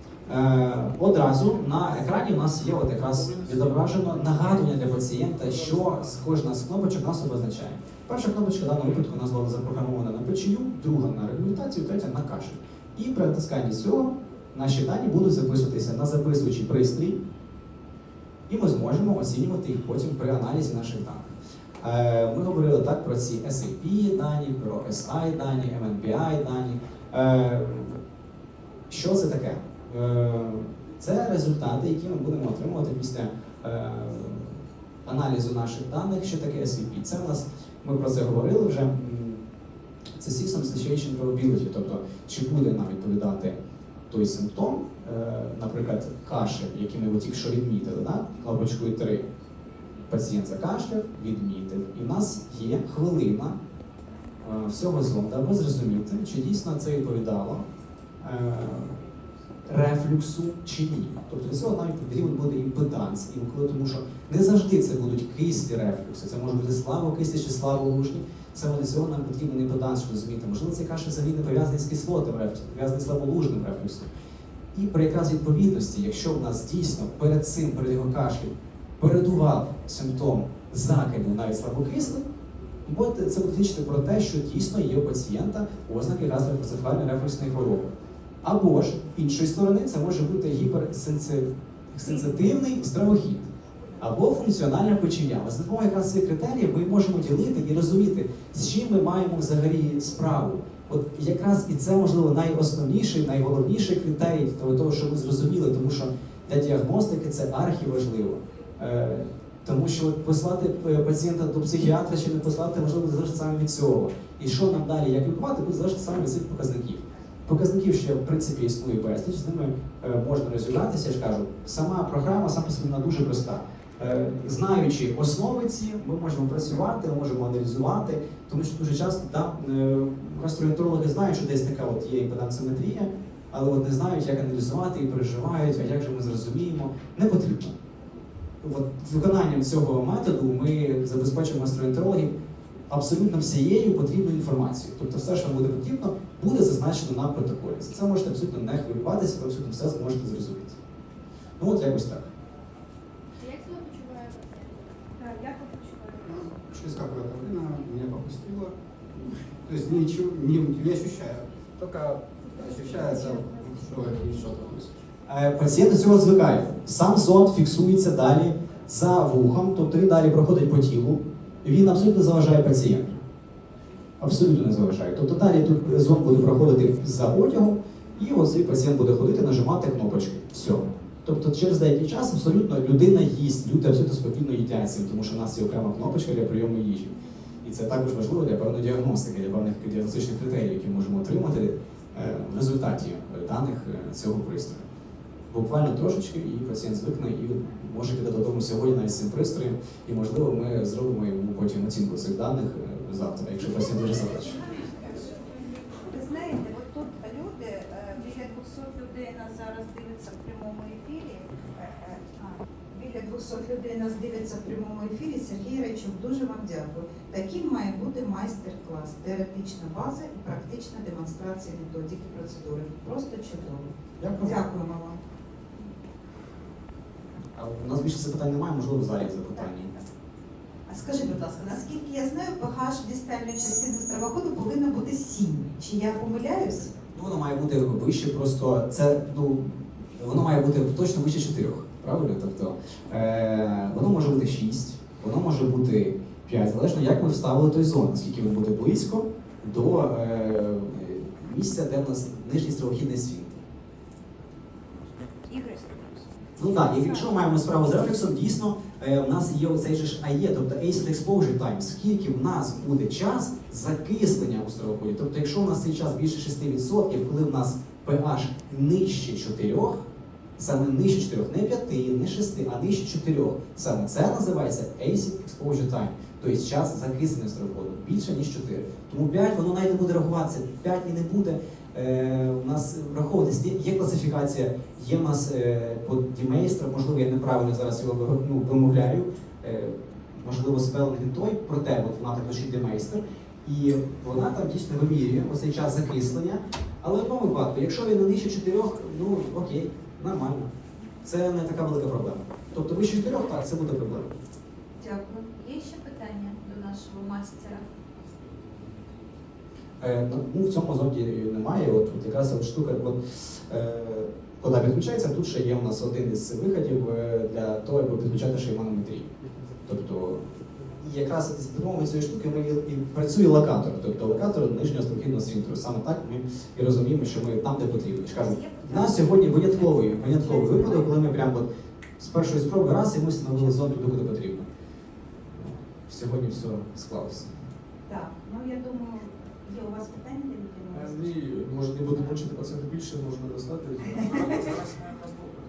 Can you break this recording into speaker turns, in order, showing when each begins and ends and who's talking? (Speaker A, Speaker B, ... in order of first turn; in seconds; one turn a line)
Speaker A: 0.3-17.2
Speaker B: 3.1-6.0
Speaker A: 18.5-28.0
Speaker A: 28.9-39.4
Speaker A: 40.2-43.6
Speaker A: 44.1-49.3
Speaker A: 50.1-53.6
Speaker A: 54.4-57.6
Speaker A: 58.2-59.0
Speaker A: 59.7-74.1
Speaker A: 74.7-82.3
Speaker A: 82.8-87.9
Speaker A: 88.4-137.7
Speaker A: 138.6-142.3
Speaker A: 142.9-150.8
Speaker A: 151.6-152.3
Speaker C: 153.4-154.8
Speaker D: 155.2-156.1
Speaker E: 156.2-164.9
Speaker C: 162.6-164.1
Speaker A: 165.3-173.2
Speaker A: 174.2-194.8
Speaker A: 195.5-204.6
Speaker D: 204.7-225.2
Speaker A: 224.2-224.6
Speaker A: 227.6-229.9
Speaker D: 230.9-237.0
Speaker A: 237.0-253.6
Speaker D: 255.5-256.1
Speaker A: 256.6-270.0
Speaker D: 256.7-257.3
Speaker A: 270.6-300.7
Speaker A: 301.2-304.3
Speaker D: 305.0-307.9
Speaker A: 310.0-319.3
Speaker A: 319.9-334.7
Speaker D: 328.3-331.1
Speaker A: 335.6-337.6
Speaker D: 338.1-341.2
Speaker B: 340.9-345.1